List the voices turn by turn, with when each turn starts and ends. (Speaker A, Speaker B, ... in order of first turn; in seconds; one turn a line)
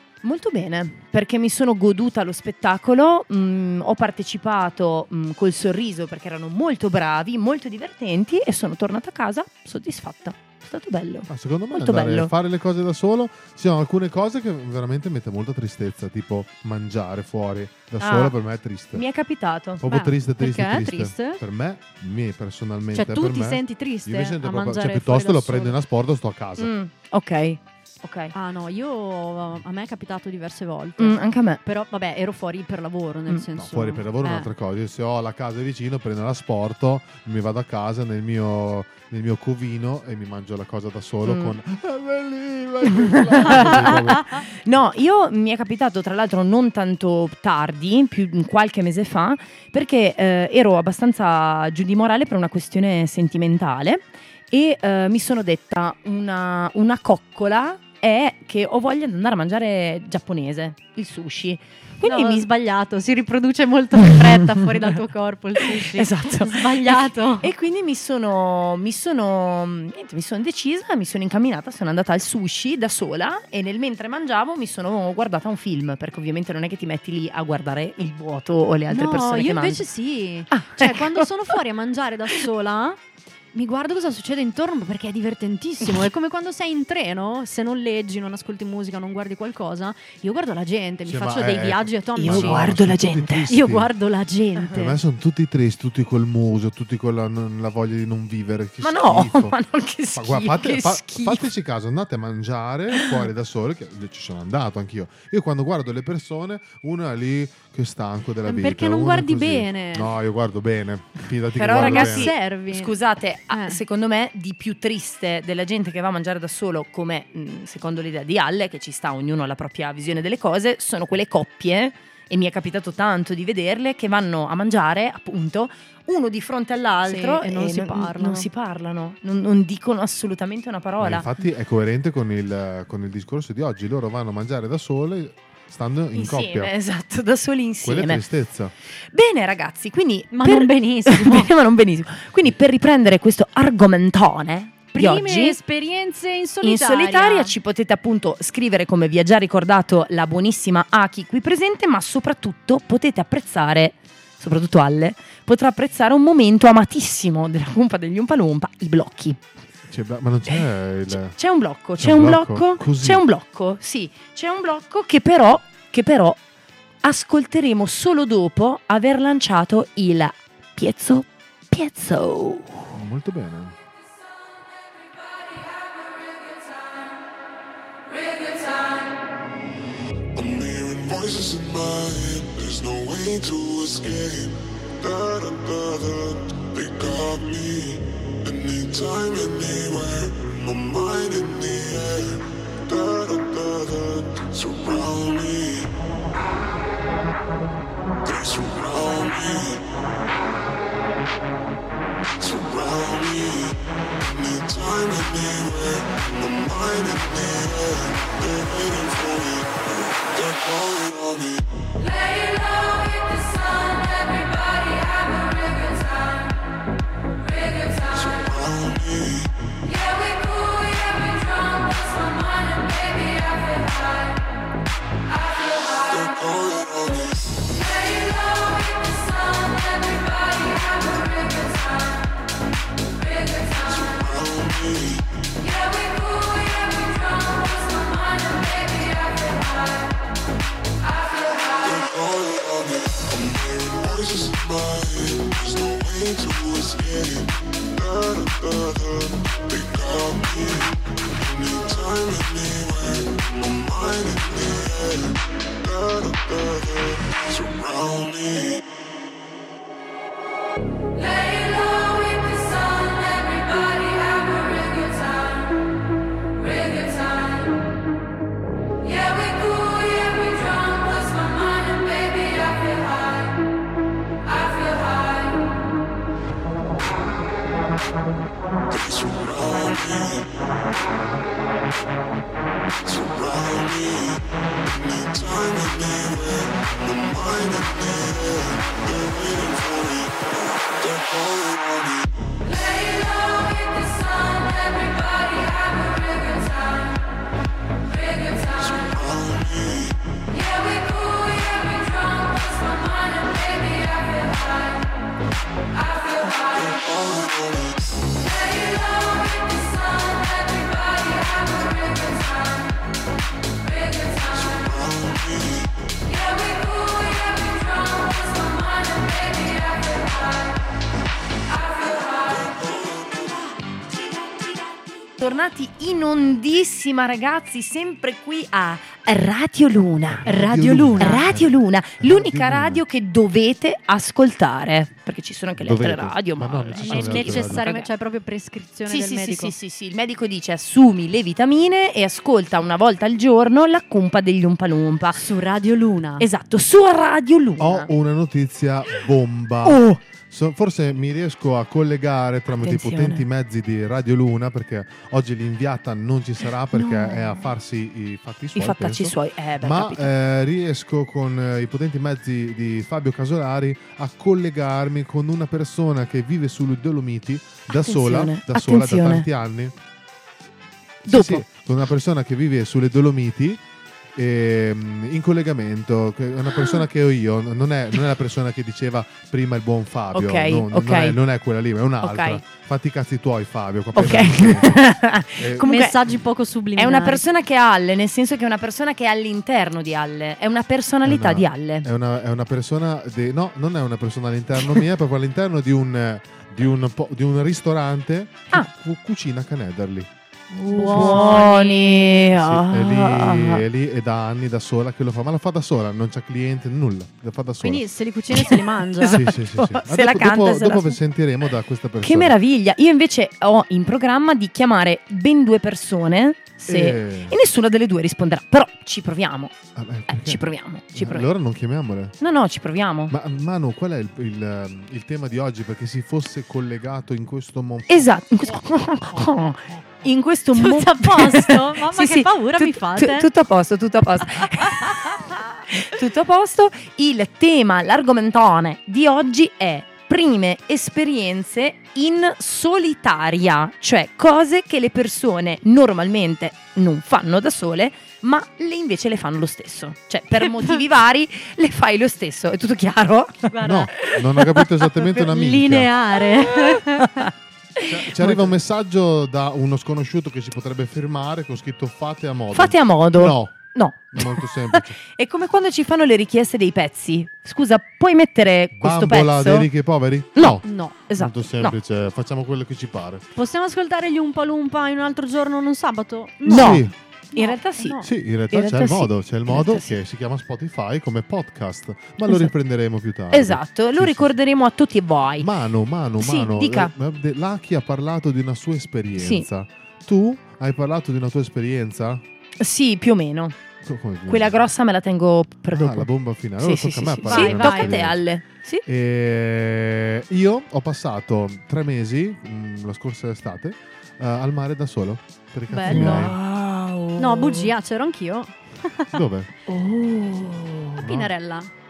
Speaker A: 0.2-12.3
Speaker B: 11.3-19.0
Speaker A: 18.0-18.3
Speaker A: 18.9-19.8
Speaker B: 19.8-26.7
Speaker C: 19.9-21.4
Speaker C: 22.9-25.7
Speaker A: 26.6-28.3
Speaker C: 28.3-34.5
Speaker A: 31.0-31.6
Speaker B: 33.5-44.3
Speaker A: 41.2-41.5
Speaker A: 42.8-62.5
Speaker C: 43.5-44.4
Speaker C: 62.0-67.5
Speaker A: 64.0-64.7
Speaker A: 65.6-79.8
Speaker C: 78.9-83.0
Speaker A: 80.5-81.3
Speaker C: 83.5-92.8
Speaker B: 91.0-93.9
Speaker A: 92.2-93.5
Speaker C: 93.5-95.0
Speaker B: 94.7-99.5
Speaker A: 98.8-101.5
Speaker B: 100.1-112.3
Speaker C: 108.5-110.1
Speaker A: 111.5-131.2
Speaker C: 111.8-112.9
Speaker C: 113.5-113.8
Speaker C: 127.0-128.5
Speaker B: 131.0-136.7
Speaker A: 136.1-138.2
Speaker B: 137.8-138.7
Speaker A: 139.1-145.6
Speaker C: 140.3-141.5
Speaker C: 144.9-147.5
Speaker A: 146.6-159.4
Speaker B: 159.9-161.3
Speaker A: 160.5-166.4
Speaker B: 162.0-163.2
Speaker A: 167.0-172.9
Speaker B: 172.9-173.8
Speaker D: 180.3-195.9
Speaker D: 198.2-199.8
Speaker D: 202.4-211.7
Speaker D: 218.0-219.5
Speaker D: 225.9-227.6
Speaker D: 233.7-235.3
Speaker D: 241.8-258.8
Speaker D: 278.9-280.5
Speaker D: 283.0-292.3
Speaker D: 298.6-300.2
Speaker D: 306.5-308.2
Speaker D: 314.4-316.0
Speaker D: 322.4-323.6
Speaker A: 325.4-338.1
Speaker B: 330.3-333.0
Speaker C: 330.4-331.4
Speaker B: 335.8-337.9
Speaker C: 337.0-339.7
Speaker A: 339.1-345.4
Speaker C: 345.3-346.5
Speaker A: 346.4-348.1
Speaker B: 347.8-369.9
Speaker A: 349.8-350.2
Speaker A: 352.7-353.4
Speaker A: 356.9-357.7
Speaker A: 358.8-360.3
Speaker A: 367.9-369.4
Speaker B: 371.2-373.8
Speaker A: 371.3-371.6
Speaker B: 374.3-385.0
Speaker A: 380.3-381.4
Speaker A: 382.2-382.6
Speaker A: 384.1-386.1
Speaker B: 385.6-385.9
Speaker C: 385.8-387.4
Speaker A: 386.9-392.1
Speaker B: 391.2-400.3
Speaker A: 400.8-403.8
Speaker C: 400.9-402.3
Speaker B: 401.0-401.7
Speaker B: 402.5-408.0
Speaker C: 407.8-409.4
Speaker A: 408.7-411.2
Speaker B: 409.3-412.5
Speaker A: 412.2-419.7
Speaker B: 416.9-417.5
Speaker B: 419.9-422.3
Speaker A: 420.3-421.5
Speaker A: 422.4-423.3
Speaker B: 423.3-428.3
Speaker A: 428.1-453.7
Speaker C: 430.7-433.5
Speaker C: 450.5-451.0
Speaker C: 453.7-454.3
Speaker B: 453.8-456.1
Speaker C: 455.2-457.5
Speaker A: 458.0-458.7
Speaker B: 458.1-465.1
Speaker A: 462.7-469.9
Speaker B: 469.0-470.8
Speaker A: 470.6-471.9
Speaker C: 470.8-471.1
Speaker B: 471.4-473.4
Speaker C: 473.5-478.3
Speaker B: 476.7-477.1
Speaker A: 476.7-478.2
Speaker B: 478.2-484.5
Speaker A: 478.7-480.1
Speaker A: 483.5-485.7
Speaker B: 485.6-492.4
Speaker A: 486.4-487.1
Speaker A: 489.4-489.7
Speaker A: 492.8-493.8
Speaker B: 494.0-494.9
Speaker A: 494.5-499.0
Speaker B: 495.9-498.4
Speaker C: 497.5-498.2
Speaker B: 499.0-506.6
Speaker C: 505.9-506.5
Speaker A: 506.1-507.9
Speaker C: 507.4-509.3
Speaker B: 509.3-509.7
Speaker A: 509.9-511.2
Speaker B: 511.2-511.5
Speaker C: 511.2-511.9